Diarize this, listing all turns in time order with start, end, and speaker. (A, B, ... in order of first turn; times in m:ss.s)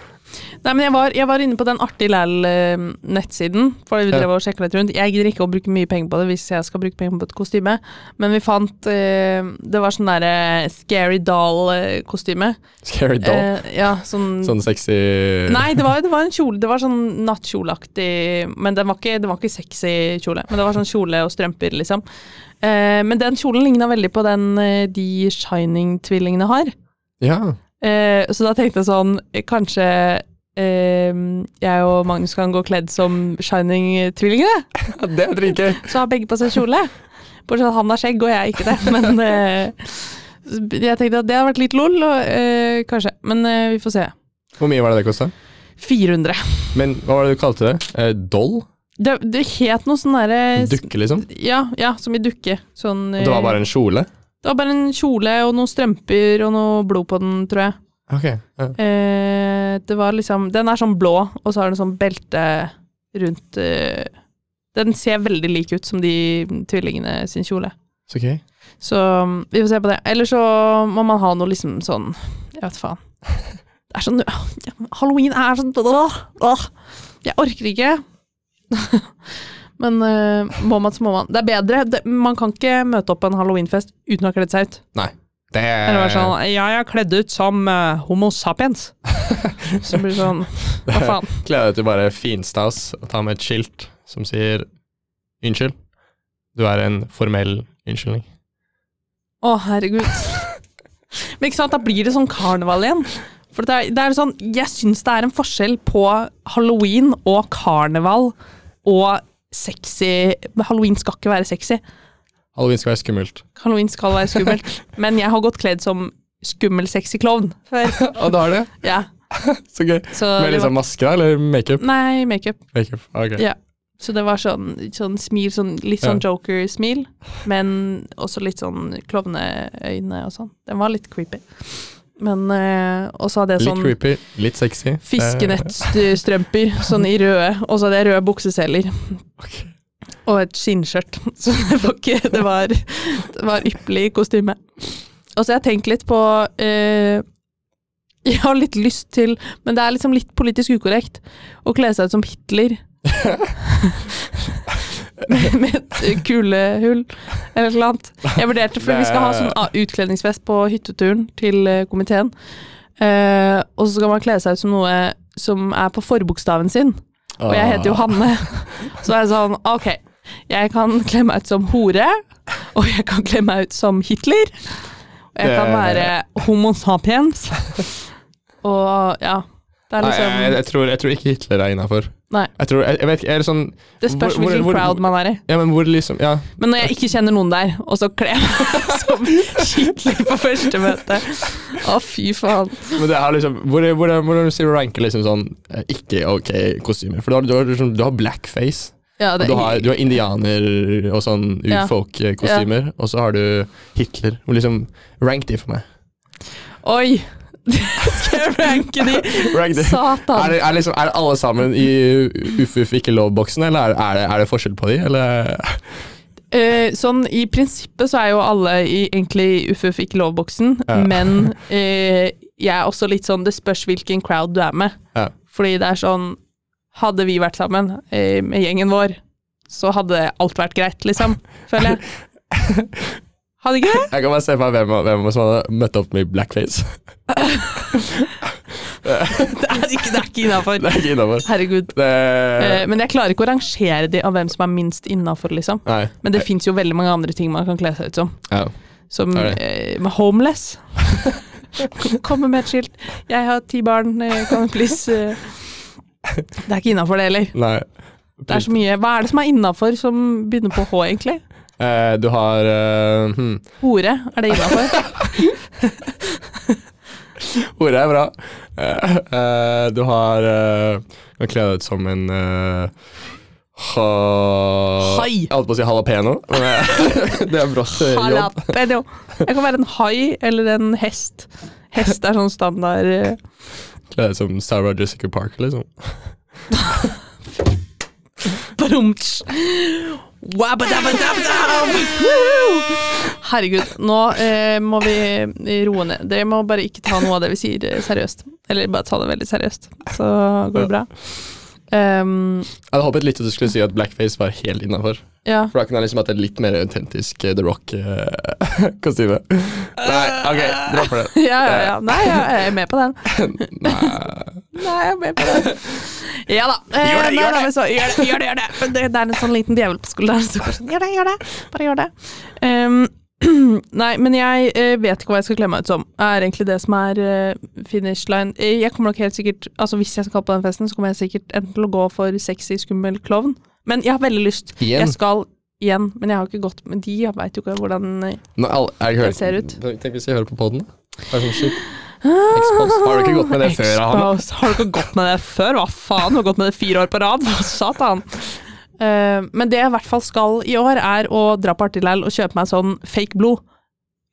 0:00.6-0:12.6 A
0:12.8-0:13.5 B
0:13.2-0:14.6 A
0:14.4-0:15.8 B
0:15.4-0:22.0 A
0:22.6-0:26.7 A
0:27.2-0:27.6 B
0:27.8-0:34.8 A
0:34.9-0:35.9 B
0:35.7-0:36.9 A
0:37.4-0:44.1 A
0:44.6-0:45.3 B
0:45.8-0:46.7 A
0:46.7-0:48.6 B
0:49.0-0:53.6 A
0:50.6-0:51.2 B
0:53.2-0:54.1 B
0:54.4-0:57.8 A
0:58.1-0:58.7 B
0:58.8-1:04.1 A
1:04.7-1:07.7 A
1:08.1-1:08.4 B
1:08.8-1:13.0 A
1:13.9-1:16.7 A
1:17.2-1:18.0 A
1:18.7-1:19.1 A
1:19.8-1:24.8 A
1:24.9-1:26.3 B
1:25.8-1:28.9 A
1:29.2-1:29.8 B
1:29.7-1:31.4 A
1:30.9-1:34.6 B
1:35.4-1:35.7 B
1:36.5-1:38.2 B
1:39.4-1:40.6 A
1:41.2-1:51.8 A
1:52.5-1:53.4 B
1:53.6-1:59.1 A
1:57.9-1:58.7 B
1:59.3-2:01.8 B
2:00.1-2:00.7 A
2:01.8-2:02.6 A
2:02.7-2:03.4 B
2:03.4-2:14.0 A
2:13.6-2:16.0 B
2:15.0-2:19.2 A
2:19.4-2:19.7 B
2:20.2-2:24.6 A
2:25.4-2:27.2 A
2:28.2-2:32.8 A
2:33.0-2:33.5 B
2:33.6-2:42.3 A
2:38.8-2:39.6 B
2:43.0-2:54.8 A
2:47.4-2:48.2 B
2:55.3-2:58.0 A
2:55.4-2:56.1 B
2:58.6-3:00.6 A
3:00.0-3:06.5 B
3:04.0-3:05.4 A
3:06.6-3:13.0 A
3:13.0-3:25.8 B
3:19.2-3:19.9 A
3:21.7-3:22.6 A
3:26.8-3:30.6 A
3:29.1-3:35.8 B
3:36.5-3:46.4 A
3:40.9-3:41.5 B
3:46.9-3:52.0 A
3:52.5-3:53.2 B
3:53.6-3:54.1 A
3:54.1-3:56.9 B
3:57.3-3:58.2 A
3:57.9-3:58.5 B
3:59.0-3:59.6 B
3:59.3-4:01.9 A
4:00.8-4:02.8 B
4:02.5-4:08.4 A
4:05.8-4:06.4 B
4:09.1-4:15.6 A
4:16.6-4:17.5 A
4:17.5-4:17.8 B
4:18.4-4:18.7 B
4:18.5-4:21.4 A
4:21.8-4:23.6 B
4:23.8-4:25.5 A
4:24.7-4:25.3 B
4:27.4-4:32.9 B
4:33.8-4:38.7 B
4:35.0-4:35.5 A
4:37.9-4:43.4 A
4:44.1-4:46.2 B
4:46.8-4:47.1 A
4:48.6-5:01.2 A
5:01.9-5:02.7 A
5:02.9-5:12.5 B
5:05.4-5:05.7 A
5:10.0-5:14.2 A
5:13.3-5:14.6 B
5:14.7-5:38.4 A
5:15.4-5:15.7 B
5:17.0-5:18.4 B
5:34.8-5:35.2 B
5:38.6-5:41.8 B
5:39.2-5:39.7 A
5:42.2-5:53.6 A
5:42.5-5:44.4 B